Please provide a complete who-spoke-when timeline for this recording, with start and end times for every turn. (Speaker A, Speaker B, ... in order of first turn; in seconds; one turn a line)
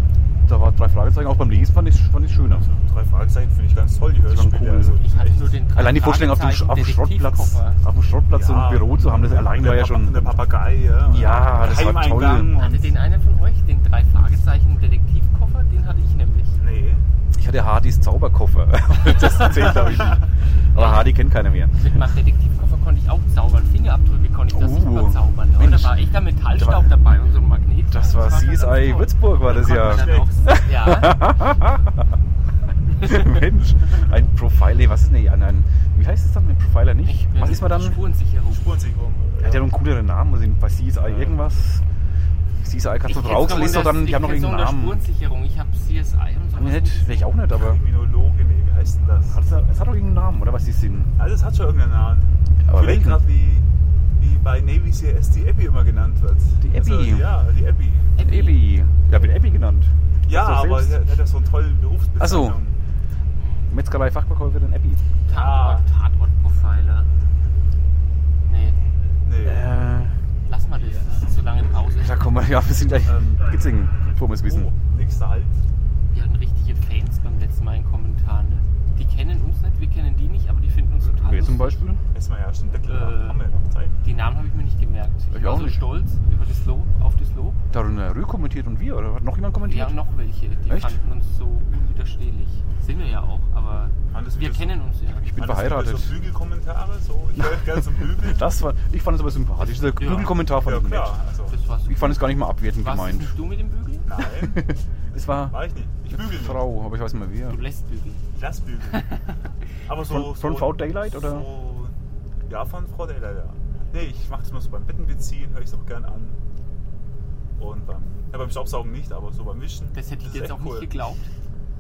Speaker A: 0.5-2.7
Speaker B: 2.5-5.6
Speaker A: 4.3-5.0
Speaker C: 5.0-7.8
Speaker A: 5.7-10.4
Speaker B: 8.3-12.9
Speaker A: 11.0-12.5
Speaker C: 12.6-16.6
Speaker B: 16.6-17.1
Speaker A: 17.3-21.9
Speaker C: 20.7-21.2
Speaker C: 21.7-31.4
Speaker A: 24.5-26.0
Speaker A: 26.5-26.9
Speaker A: 27.9-31.9
Speaker B: 29.4-30.7
Speaker A: 33.0-38.0
Speaker C: 37.0-38.7
Speaker B: 38.5-39.7
Speaker A: 39.4-41.8
Speaker B: 41.0-41.4
Speaker A: 42.6-45.0
Speaker C: 43.1-47.3
Speaker A: 46.5-47.8
Speaker B: 47.5-49.4
Speaker A: 49.3-51.1
Speaker B: 51.2-53.7
Speaker A: 52.6-53.2
Speaker B: 54.2-58.2
Speaker A: 56.6-57.3
Speaker C: 58.2-58.7
Speaker A: 58.2-61.0
Speaker B: 60.3-62.8
Speaker A: 62.2-62.6
Speaker A: 63.7-65.0
Speaker C: 65.3-67.1
Speaker B: 65.3-65.8
Speaker C: 68.5-68.8
Speaker B: 69.2-69.7
Speaker A: 69.4-70.2
Speaker C: 70.5-72.2
Speaker A: 71.9-74.7
Speaker B: 73.0-73.4
Speaker B: 74.4-75.5
Speaker C: 76.1-81.8
Speaker A: 81.0-82.0
Speaker B: 82.1-83.9
Speaker C: 82.9-83.4
Speaker C: 84.0-87.6
Speaker A: 85.3-85.8
Speaker A: 87.7-90.0
Speaker C: 89.7-95.3
Speaker A: 90.7-91.0
Speaker B: 94.1-94.8
Speaker A: 95.2-96.1
Speaker B: 95.3-98.6
Speaker A: 98.2-101.1
Speaker C: 99.6-100.5
Speaker B: 100.5-101.5
Speaker C: 101.5-104.1
Speaker A: 101.8-103.3
Speaker B: 104.0-106.7
Speaker A: 104.4-105.6
Speaker A: 106.1-107.6
Speaker C: 107.5-108.2
Speaker B: 108.3-109.1
Speaker B: 109.9-111.9
Speaker A: 110.1-111.5
Speaker B: 112.5-116.4
Speaker B: 117.6-120.9
Speaker C: 119.9-121.3